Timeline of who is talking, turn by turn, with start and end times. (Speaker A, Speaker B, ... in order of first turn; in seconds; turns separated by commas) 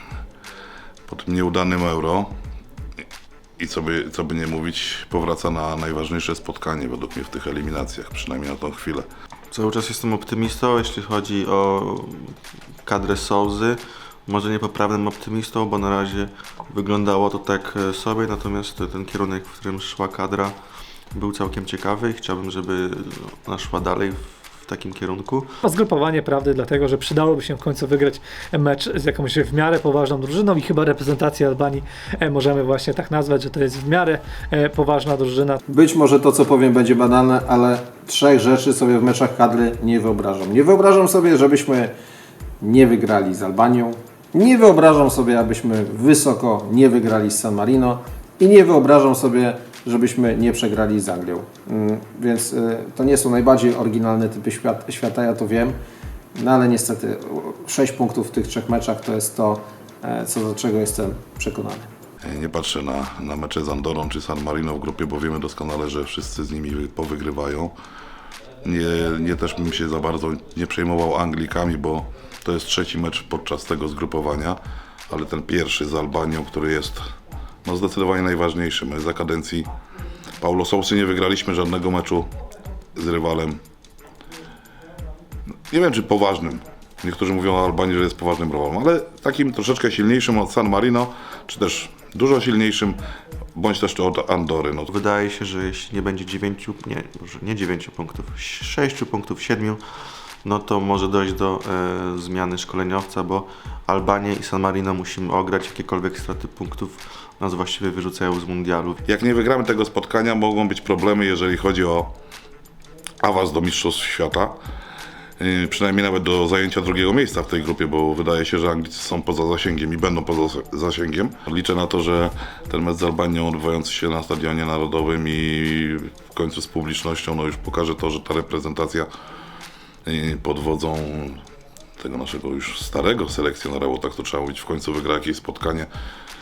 Speaker A: 1.1-2.3, Speaker A: 3.6-9.1, Speaker B: 9.5-20.6, Speaker B: 21.1-25.5, Speaker C: 25.6-35.6, Speaker D: 35.7-41.9, Speaker D: 42.6-55.8, Speaker D: 56.4-61.9, Speaker A: 62.2-67.7, Speaker A: 68.6-77.0, Speaker A: 77.7-79.7, Speaker A: 80.4-82.3, Speaker A: 83.0-83.6, Speaker A: 85.7-93.0, Speaker A: 93.5-94.9, Speaker B: 94.9-109.0, Speaker A: 109.1-112.1, Speaker A: 113.2-114.6, Speaker A: 115.4-129.1, Speaker A: 130.1-131.4, Speaker A: 132.0-135.9